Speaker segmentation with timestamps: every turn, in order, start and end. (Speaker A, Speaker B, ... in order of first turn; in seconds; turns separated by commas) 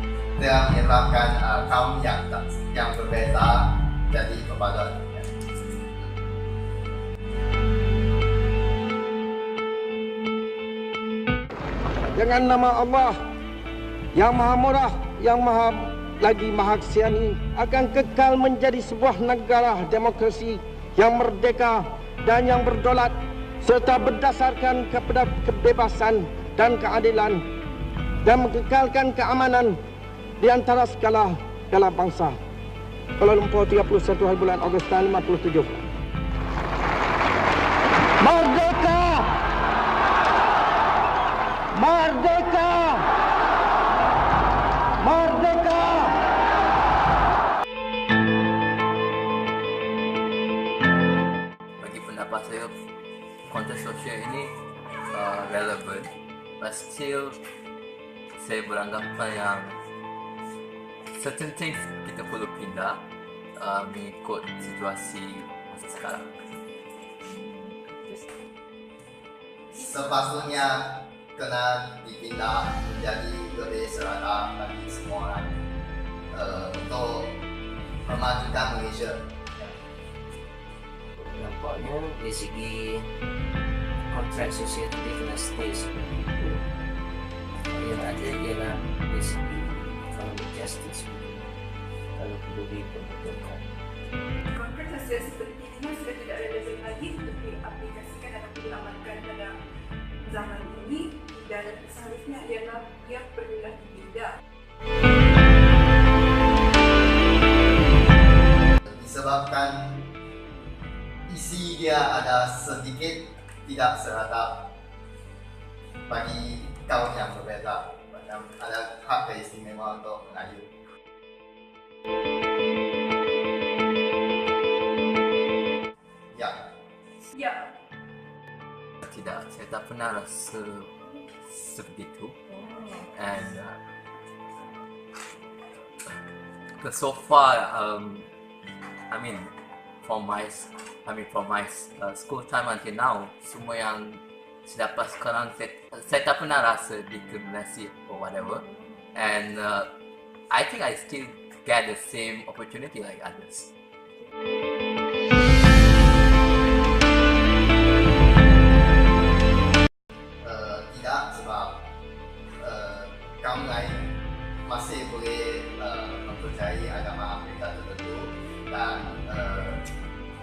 Speaker A: 0.4-5.3, Speaker B: 12.2-13.2, Speaker B: 14.2-27.4, Speaker B: 28.2-29.8, Speaker B: 30.4-32.4, Speaker B: 33.2-35.8, Speaker B: 38.2-39.3, Speaker B: 41.7-43.1, Speaker B: 45.0-46.1, Speaker C: 51.8-52.8, Speaker C: 53.5-54.5, Speaker C: 55.1-57.4, Speaker C: 58.4-59.8, Speaker C: 61.1-66.4, Speaker A: 69.7-75.6, Speaker A: 76.3-77.4, Speaker A: 78.0-79.7, Speaker D: 81.2-83.1, Speaker D: 84.1-86.5, Speaker D: 87.7-91.4, Speaker D: 92.2-93.6, Speaker E: 94.5-99.6, Speaker E: 100.3-104.3, Speaker A: 108.9-110.1, Speaker A: 111.3-114.8, Speaker A: 116.1-120.7, Speaker A: 126.3-126.6, Speaker E: 127.3-127.7, Speaker C: 129.0-133.8, Speaker C: 136.8-138.3, Speaker C: 139.1-149.9, Speaker C: 150.5-153.7, Speaker A: 160.4-161.9, Speaker A: 162.6-169.9